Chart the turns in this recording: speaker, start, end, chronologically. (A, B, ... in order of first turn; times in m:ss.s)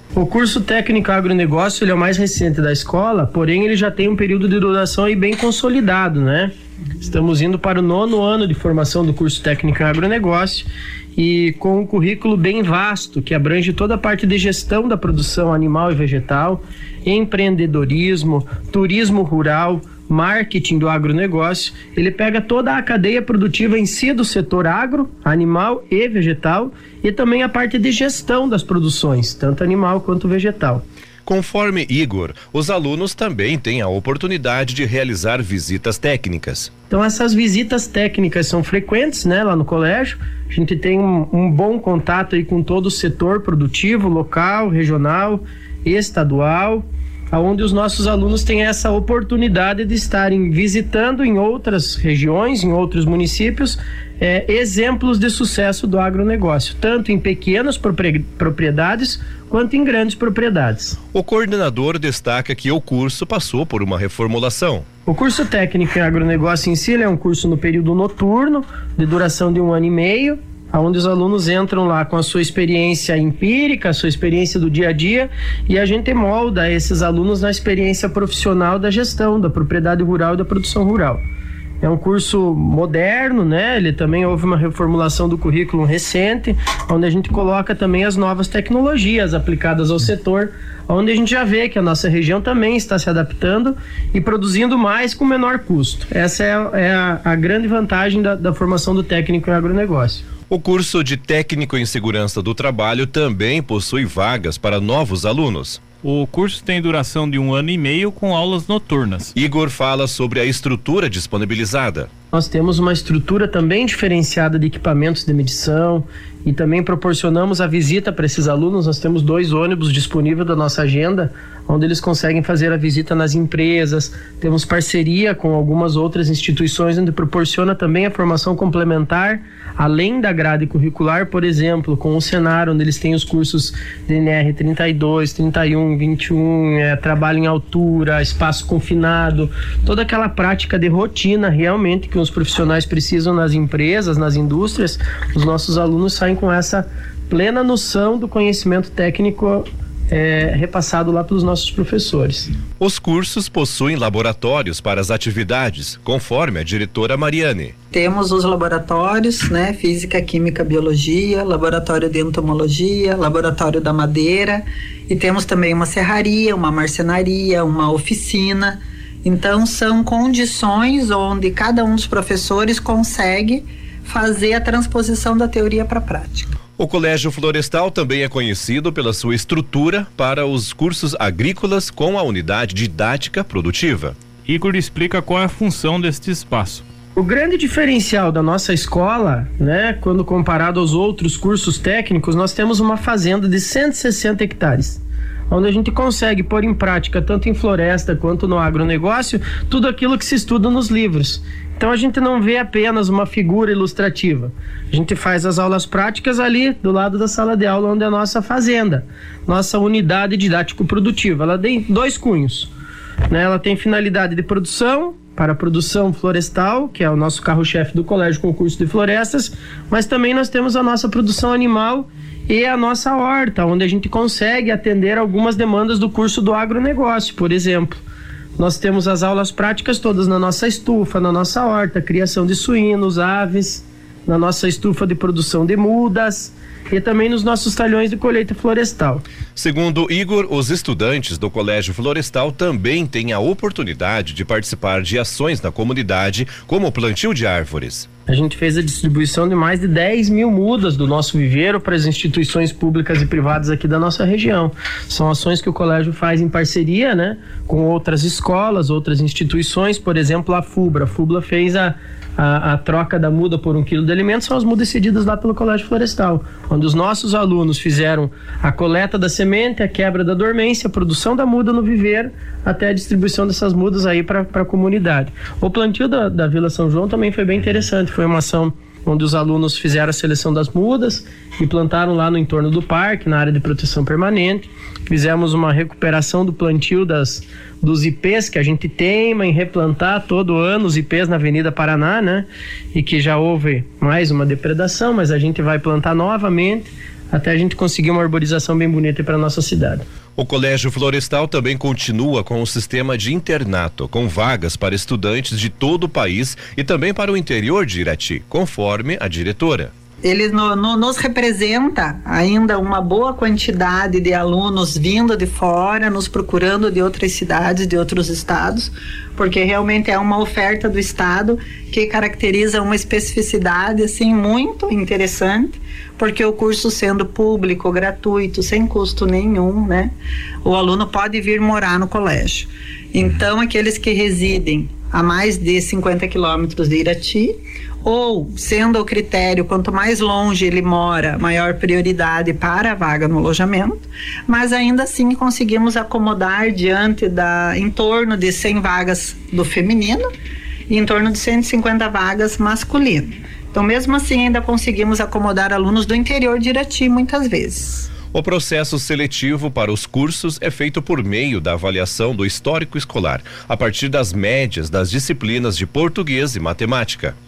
0:00.1-0:30.8 A
0:31.2-0:36.7 B
0:36.9-1:01.0 A
1:01.1-1:04.8 B
1:05.0-1:21.2 A
1:21.8-1:40.2 A
1:40.5-1:45.8 B
1:46.0-1:49.3 C
1:49.4-1:52.1 B
1:52.3-2:32.5 A
2:32.8-2:37.7 B
2:37.9-2:56.5 D
2:56.8-3:04.2 B
3:04.4-3:06.8 C
3:07.2-3:32.7 A
3:33.3-3:48.0 A
3:48.6-3:59.2 A
3:59.6-4:08.1 B
4:08.3-5:00.0 A
5:00.4-5:09.9 B
5:10.2-5:30.1 D
5:30.6-5:50.2 D
5:50.9-5:58.1 D
5:58.3-6:07.3 B